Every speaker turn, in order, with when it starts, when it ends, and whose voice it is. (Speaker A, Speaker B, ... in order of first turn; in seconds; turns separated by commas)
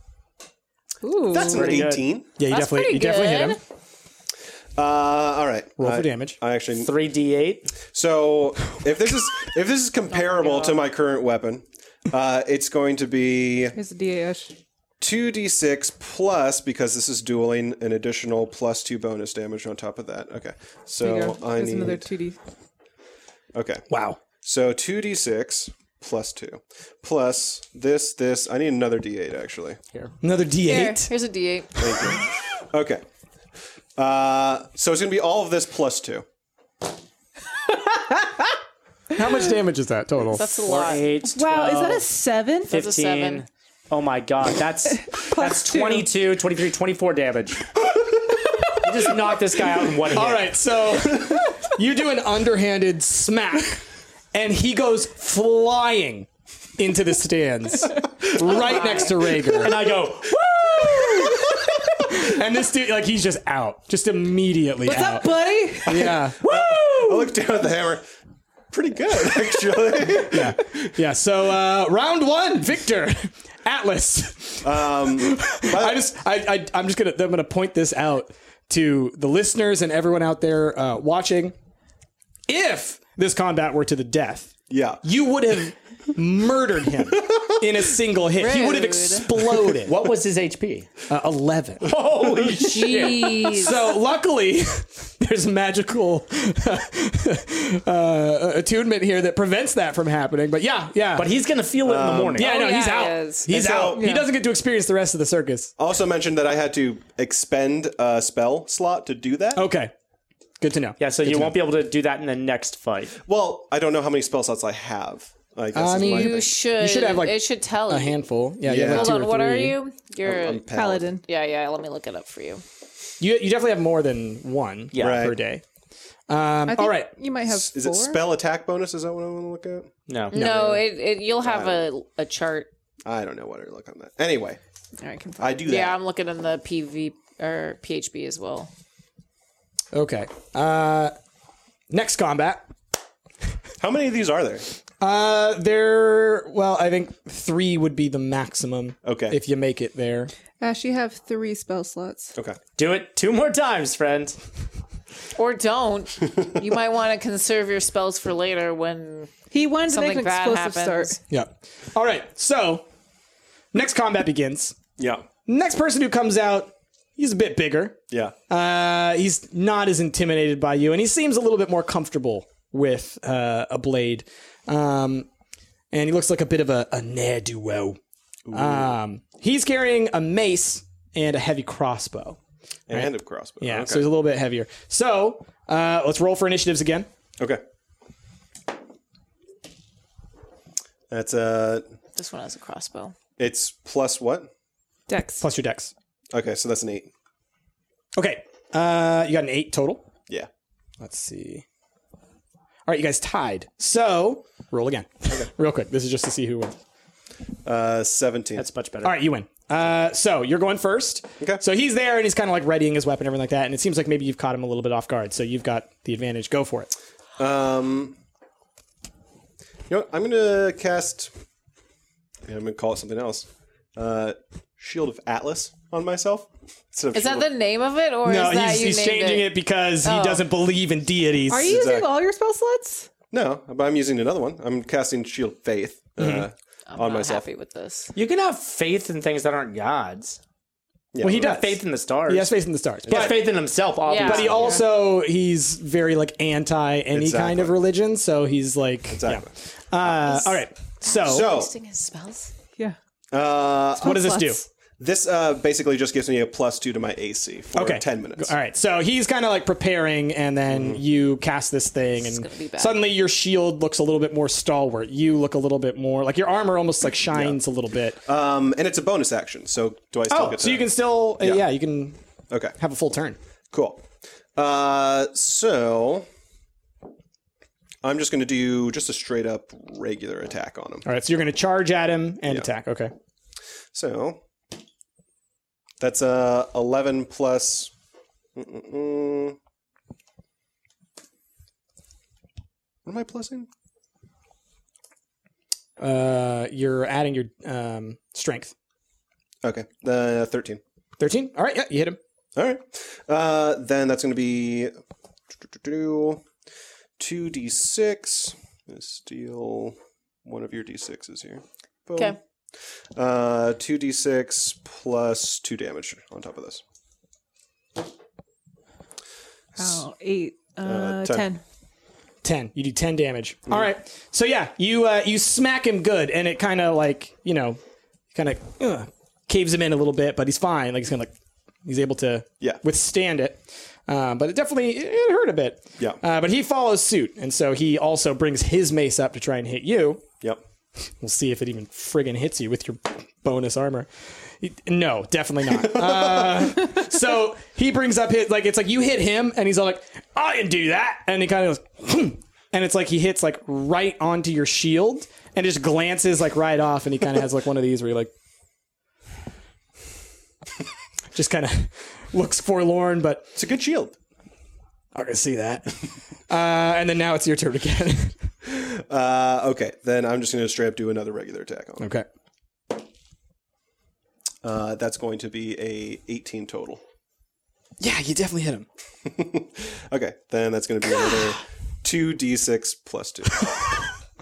Speaker A: 1.0-1.8, Speaker B: 1.3-2.3, Speaker C: 1.4-2.1, Speaker D: 2.4-3.6, Speaker E: 2.5-3.6, Speaker B: 4.8-6.9, Speaker D: 5.8-6.4, Speaker C: 6.7-7.7, Speaker B: 7.8-13.8, Speaker E: 10.1-10.9, Speaker A: 13.7-14.5, Speaker B: 15.0-22.1, Speaker A: 21.0-22.4, Speaker B: 23.5-23.8, Speaker D: 23.9-24.2, Speaker B: 24.4-29.8, Speaker D: 30.2-31.1, Speaker E: 30.7-32.0, Speaker B: 31.8-33.0, Speaker B: 34.0-36.2, Speaker D: 39.1-40.7, Speaker E: 40.3-41.1, Speaker C: 40.7-42.1, Speaker A: 41.3-42.7, Speaker C: 42.7-47.7, Speaker E: 42.7-43.4, Speaker A: 45.1-46.0, Speaker C: 48.8-50.5, Speaker D: 50.1-53.8, Speaker D: 54.3-59.8, Speaker E: 58.5-59.1, Speaker C: 59.5-61.4, Speaker D: 62.0-66.4, Speaker A: 64.8-66.6, Speaker B: 66.4-68.0, Speaker B: 68.7-70.9, Speaker D: 70.3-81.5, Speaker B: 74.6-76.1, Speaker D: 82.5-84.5, Speaker B: 84.7-85.0, Speaker D: 85.0-90.0, Speaker B: 87.2-87.5, Speaker E: 88.4-89.0, Speaker A: 88.5-89.2, Speaker C: 89.7-90.9, Speaker D: 91.1-92.0, Speaker C: 91.8-93.6, Speaker E: 92.6-93.8, Speaker D: 93.5-101.3, Speaker C: 101.2-102.6, Speaker B: 101.8-102.5, Speaker D: 102.4-105.7, Speaker E: 102.4-103.5, Speaker B: 103.5-104.1, Speaker A: 103.9-104.3, Speaker B: 105.8-109.7, Speaker D: 109.5-109.9, Speaker D: 110.6-111.6, Speaker C: 111.0-113.2, Speaker B: 113.2-116.5, Speaker D: 115.7-119.8, Speaker E: 115.9-118.2, Speaker B: 118.7-119.2, Speaker E: 118.8-120.6, Speaker B: 120.2-121.2, Speaker A: 120.7-121.2, Speaker E: 121.2-122.6, Speaker D: 123.2-125.6, Speaker C: 124.9-125.3, Speaker B: 125.0-125.3, Speaker D: 126.3-127.1, Speaker A: 126.7-128.2, Speaker B: 127.5-130.8, Speaker C: 130.1-130.4, Speaker E: 130.3-132.7, Speaker B: 131.4-131.9, Speaker B: 133.0-134.6, Speaker A: 135.0-135.6, Speaker B: 135.4-136.0, Speaker E: 135.6-138.7, Speaker D: 139.9-141.1, Speaker D: 141.9-142.6, Speaker B: 143.8-144.6, Speaker D: 145.0-150.3, Speaker B: 149.0-149.3, Speaker A: 150.6-152.3, Speaker C: 152.8-154.4, Speaker E: 155.3-161.2, Speaker A: 159.5-161.2, Speaker D: 161.3-162.8, Speaker D: 163.7-164.8, Speaker B: 165.0-165.2, Speaker D: 165.5-168.0, Speaker D: 168.5-175.3, Speaker D: 175.9-178.0, Speaker B: 178.5-178.9, Speaker D: 178.5-182.4, Speaker B: 182.9-184.1, Speaker D: 182.9-187.1, Speaker B: 191.1-191.8, Speaker E: 192.1-193.2, Speaker B: 193.4-194.5, Speaker A: 195.1-195.4, Speaker D: 195.4-195.9, Speaker B: 196.3-197.1, Speaker D: 198.2-200.1, Speaker D: 201.0-201.6, Speaker D: 202.8-206.8, Speaker B: 207.6-208.6, Speaker C: 208.6-209.2, Speaker D: 209.0-216.9, Speaker B: 217.4-218.2, Speaker B: 219.9-221.3, Speaker B: 222.5-227.5, Speaker E: 227.1-230.4, Speaker D: 228.2-231.7, Speaker A: 231.5-233.1, Speaker B: 231.6-232.1, Speaker B: 233.3-237.5, Speaker D: 236.2-236.5, Speaker E: 236.9-238.1, Speaker C: 238.1-240.4, Speaker B: 241.1-241.6, Speaker D: 241.2-243.5, Speaker C: 241.3-242.5, Speaker C: 243.1-244.8, Speaker B: 243.1-243.4, Speaker E: 244.1-244.7, Speaker D: 244.2-251.5, Speaker B: 247.1-247.8, Speaker B: 249.1-249.5, Speaker E: 250.3-252.5, Speaker B: 251.2-251.7, Speaker B: 253.3-254.2, Speaker D: 254.0-254.6, Speaker A: 254.0-254.6, Speaker B: 255.0-258.5, Speaker D: 257.7-268.2, Speaker B: 260.7-261.0, Speaker E: 262.2-263.0, Speaker B: 268.2-271.6, Speaker D: 270.3-272.1, Speaker D: 272.8-273.4, Speaker B: 273.7-274.0, Speaker B: 274.6-276.2, Speaker B: 278.0-281.1, Speaker D: 281.0-283.1, Speaker B: 283.9-284.4, Speaker B: 286.0-287.9, Speaker B: 288.6-289.6, Speaker B: 293.1-293.7, Speaker D: 296.0-298.7, Speaker B: 299.6-300.8, Speaker D: 301.2-302.2, Speaker B: 302.6-304.9, Speaker B: 305.6-306.4, Speaker B: 307.2-312.4, Speaker B: 313.1-316.8, Speaker A: 319.8-321.6, Speaker B: 320.8-321.5, Speaker D: 322.4-327.8, Speaker D: 328.3-331.3, Speaker D: 331.8-340.2, Speaker D: 341.2-344.1, Speaker D: 344.6-358.3, Speaker B: 345.8-346.7, Speaker D: 361.3-363.4, Speaker B: 363.5-364.1, Speaker D: 365.1-368.3, Speaker B: 368.6-372.1, Speaker D: 372.0-372.2, Speaker B: 374.6-377.0, Speaker D: 378.0-378.9, Speaker B: 379.2-383.7, Speaker D: 383.6-384.0